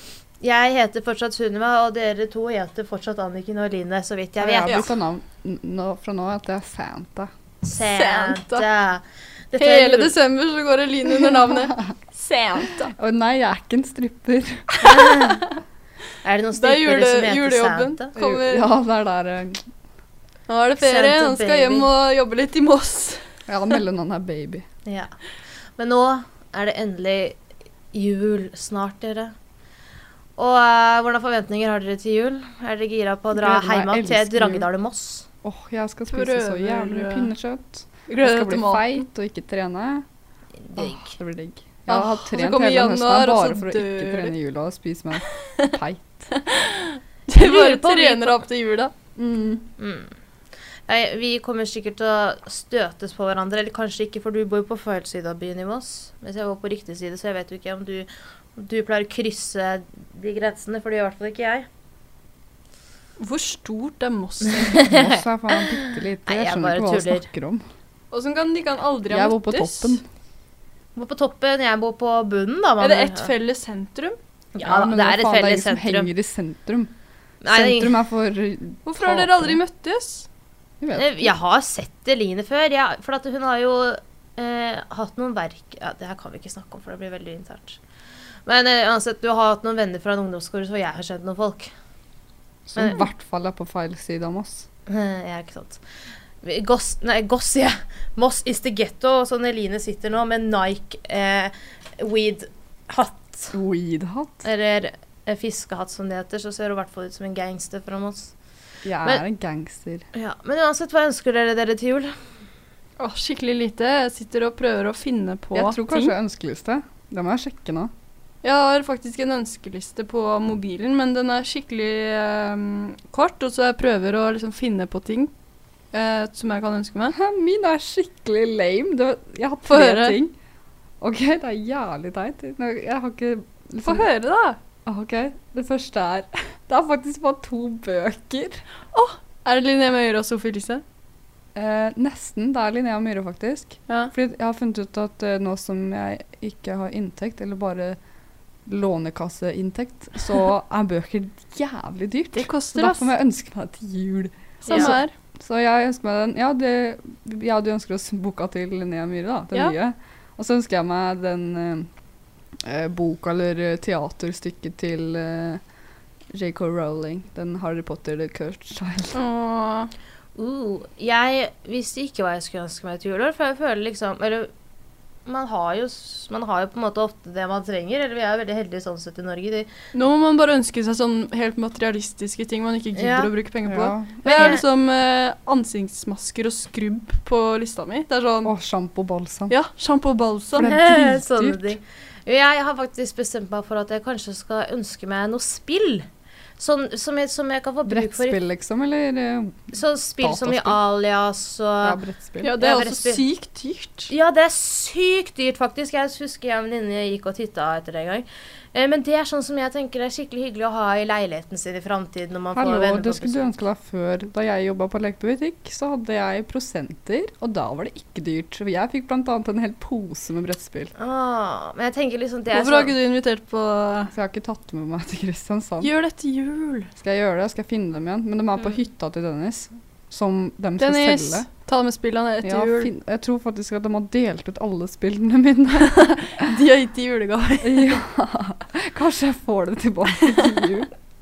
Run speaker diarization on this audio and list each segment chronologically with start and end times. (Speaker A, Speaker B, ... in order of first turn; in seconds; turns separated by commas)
Speaker A: 0.4-4.9, Speaker B: 4.4-7.3, Speaker A: 7.6-10.2, Speaker C: 7.8-8.7, Speaker C: 9.6-12.9, Speaker B: 11.1-11.9, Speaker B: 12.6-15.1, Speaker A: 14.8-15.4, Speaker C: 14.8-15.5, Speaker A: 16.2-18.1, Speaker C: 16.6-18.7, Speaker B: 18.2-19.6, Speaker C: 20.5-23.8, Speaker A: 20.8-21.9, Speaker B: 23.5-24.6, Speaker A: 24.9-25.1, Speaker A: 25.8-27.4, Speaker A: 27.9-29.3, Speaker A: 30.4-35.3, Speaker B: 33.3-34.7, Speaker B: 35.4-40.0, Speaker C: 36.1-37.3, Speaker C: 38.1-39.1, Speaker A: 40.6-41.2, Speaker B: 40.8-46.3, Speaker C: 41.9-44.3, Speaker C: 46.3-48.9, Speaker A: 47.4-48.4, Speaker B: 49.2-49.7, Speaker A: 49.8-50.1, Speaker A: 50.9-61.7, Speaker C: 63.2-64.9, Speaker A: 64.5-67.3, Speaker B: 64.8-67.6, Speaker C: 68.1-70.0, Speaker B: 69.1-70.0, Speaker A: 71.0-73.3, Speaker C: 72.8-74.2, Speaker A: 74.5-76.1, Speaker B: 74.6-76.9, Speaker A: 77.4-78.0, Speaker B: 77.5-79.6, Speaker C: 78.9-80.3, Speaker B: 80.8-81.3, Speaker A: 80.9-87.8, Speaker A: 88.5-91.7, Speaker B: 92.7-94.7, Speaker A: 92.8-93.0, Speaker A: 94.9-95.8, Speaker A: 96.4-103.5, Speaker B: 103.5-104.5, Speaker A: 104.4-108.3, Speaker B: 108.8-110.1, Speaker A: 110.1-112.1, Speaker C: 113.0-116.2, Speaker B: 115.5-117.9, Speaker C: 118.4-125.3, Speaker C: 125.9-127.2, Speaker B: 127.1-130.3, Speaker C: 129.7-130.2, Speaker B: 131.0-134.1, Speaker C: 133.8-134.6, Speaker B: 134.9-138.7, Speaker C: 138.9-140.8, Speaker B: 141.6-148.0, Speaker C: 143.9-144.1, Speaker B: 148.7-161.9, Speaker C: 152.3-153.1, Speaker C: 154.7-155.1, Speaker A: 154.7-154.9, Speaker B: 162.6-165.6, Speaker B: 166.3-169.2, Speaker C: 169.1-169.9, Speaker A: 170.4-174.5, Speaker A: 175.3-179.7, Speaker C: 179.9-188.5, Speaker A: 182.9-183.3, Speaker B: 183.6-184.6, Speaker A: 184.2-184.6, Speaker B: 188.4-189.5, Speaker C: 189.5-190.7, Speaker B: 190.6-191.7, Speaker A: 190.6-196.1, Speaker A: 196.6-198.4, Speaker B: 197.9-200.8, Speaker A: 199.7-202.0, Speaker B: 201.8-202.5, Speaker C: 202.4-204.1, Speaker A: 202.6-203.2, Speaker A: 204.1-213.5, Speaker B: 212.5-220.9, Speaker A: 221.0-222.9, Speaker C: 222.5-224.1, Speaker B: 224.1-225.9, Speaker C: 225.8-226.9, Speaker B: 227.0-231.5, Speaker C: 230.8-232.9, Speaker B: 232.4-236.4, Speaker C: 235.7-238.0, Speaker B: 237.6-240.9